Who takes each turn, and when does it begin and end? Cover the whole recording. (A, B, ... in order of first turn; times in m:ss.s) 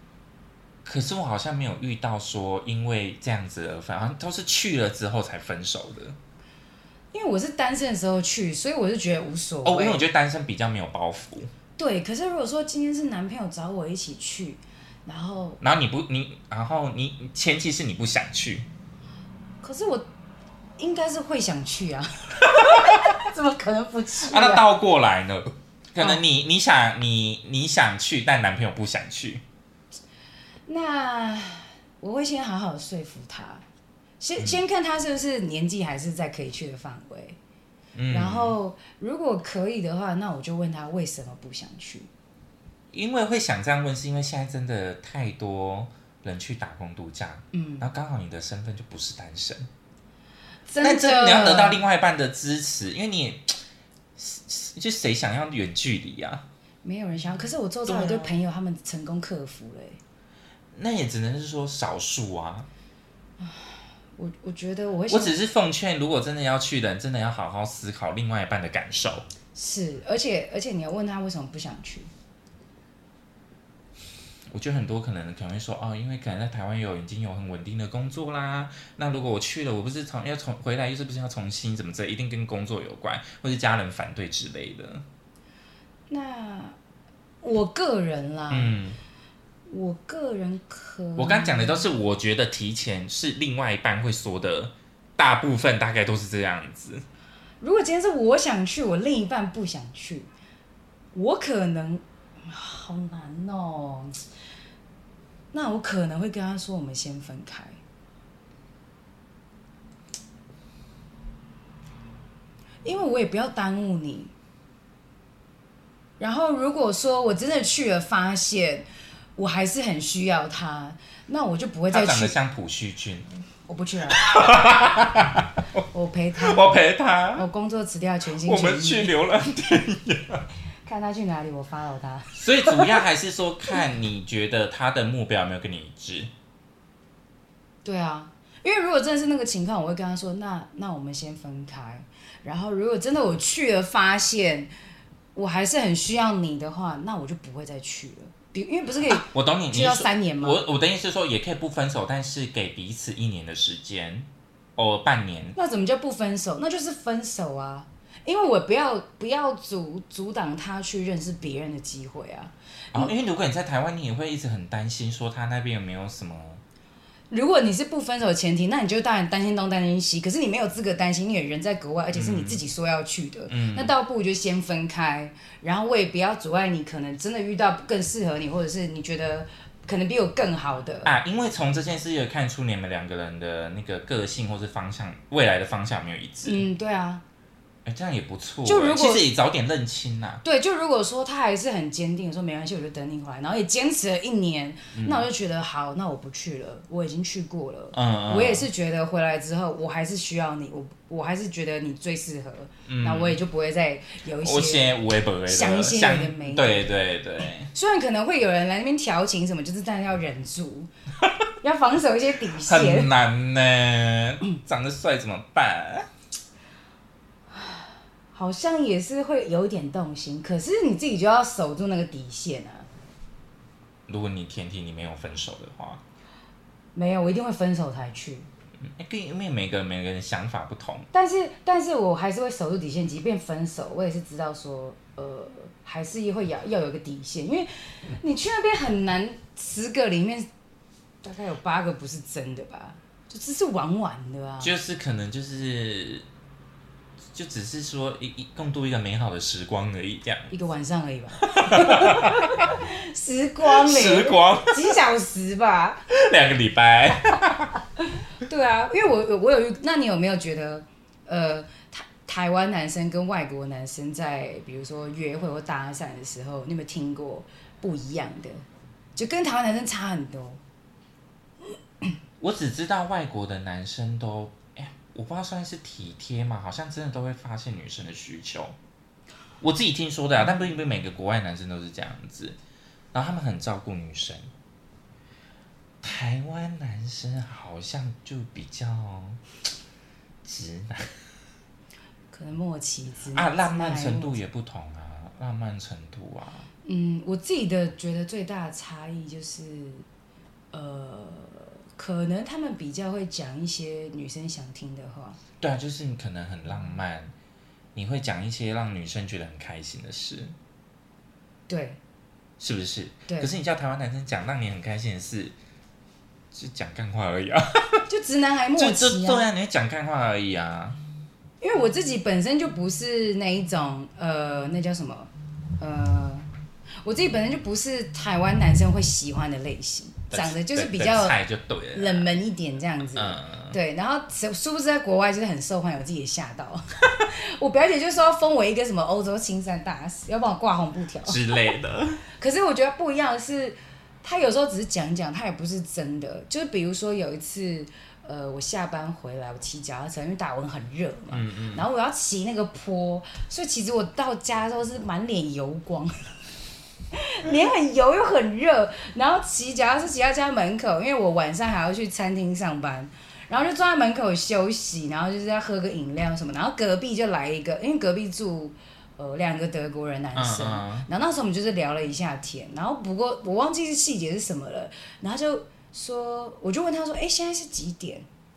0:00.8-0:06.2 A
0:07.1-0:10.0 B
0:09.6-0:11.5 A
0:11.8-0:15.6 B
0:15.6-0:18.7 A
0:19.6-0:20.0 B
0:20.8-0:24.6 B
0:22.4-0:23.0 A
0:24.2-0:29.4 A
0:30.7-0:33.6 B
0:34.2-0:37.4 B
0:38.0-0:38.5 A
0:38.1-0:42.1 B
0:42.9-0:49.7 A
0:47.5-0:47.9 B
0:50.7-0:51.8 B
0:50.8-0:53.6 A
0:54.2-0:56.4 A
0:56.8-1:00.0 B
0:57.9-0:58.4 A
1:00.7-1:02.7 A
1:03.4-1:05.4 B
1:05.1-1:09.2 A
1:09.5-1:12.1 B
1:14.5-1:25.0 A
1:26.1-1:26.8 B
1:27.4-1:28.8 B
1:28.5-1:29.0 A
1:29.7-1:31.8 B
1:31.2-1:37.0 A
1:37.6-1:40.3 B
1:41.1-1:44.2 B
1:45.5-1:47.8 B
1:52.8-1:54.3 B
1:56.2-2:02.3 B
2:01.9-2:03.4 A
2:03.7-2:04.3 B
2:04.1-2:05.6 A
2:05.9-2:06.7 B
2:06.4-2:07.4 A
2:07.3-2:09.2 B
2:08.4-2:10.4 A
2:10.8-2:13.0 B
2:12.3-2:16.3 A
2:17.8-2:24.7 B
2:25.3-2:30.6 B
2:29.0-2:35.6 A
2:35.6-2:43.1 B
2:42.9-2:46.6 A
2:47.3-3:01.1 B
2:52.1-2:52.6 A
2:53.5-2:53.9 A
3:01.0-3:06.6 A
3:06.4-3:07.2 B
3:07.8-3:10.4 A
3:08.6-3:09.2 B
3:10.4-3:24.9 B
3:14.9-3:15.3 A
3:17.9-3:18.7 A
3:22.9-3:23.4 A
3:24.4-3:27.7 A
3:25.5-3:26.9 B
3:27.7-3:30.9 B
3:31.6-3:33.1 B
3:32.6-3:36.1 A
3:37.5-3:42.9 B
3:44.1-3:46.0 A
3:46.9-3:48.5 B
3:48.8-3:51.1 A
3:51.1-4:00.5 B
4:01.2-4:04.7 B
4:04.6-4:06.2 A
4:07.3-4:10.5 A
4:10.5-4:16.0 B
4:11.4-4:12.7 A
4:13.7-4:14.9 A
4:16.1-4:17.7 A
4:18.0-4:28.6 B
4:29.2-4:30.6 B
4:32.4-4:38.7 A
4:39.6-4:42.6 A
4:43.1-4:44.5 A
4:46.0-4:49.4 A
4:50.4-4:51.2 A
4:52.3-4:54.4 B
4:53.3-4:56.7 A
4:56.8-5:00.0 B
5:00.7-5:05.4 B
5:05.6-5:07.3 A
5:07.9-5:10.5 A
5:11.7-5:12.0 B
5:12.6-5:15.5 A
5:13.3-5:13.5 B
5:16.5-5:18.0 A
5:18.1-5:19.5 B
5:18.8-5:21.0 A
5:21.6-5:26.5 B
5:27.0-5:31.4 B
5:30.3-5:32.3 A
5:31.9-5:41.4 B
5:33.1-5:33.8 A
5:41.2-5:42.2 A
5:42.4-5:56.3 B
5:51.3-5:51.8 A
5:57.1-6:18.2 B
6:10.3-6:11.1 A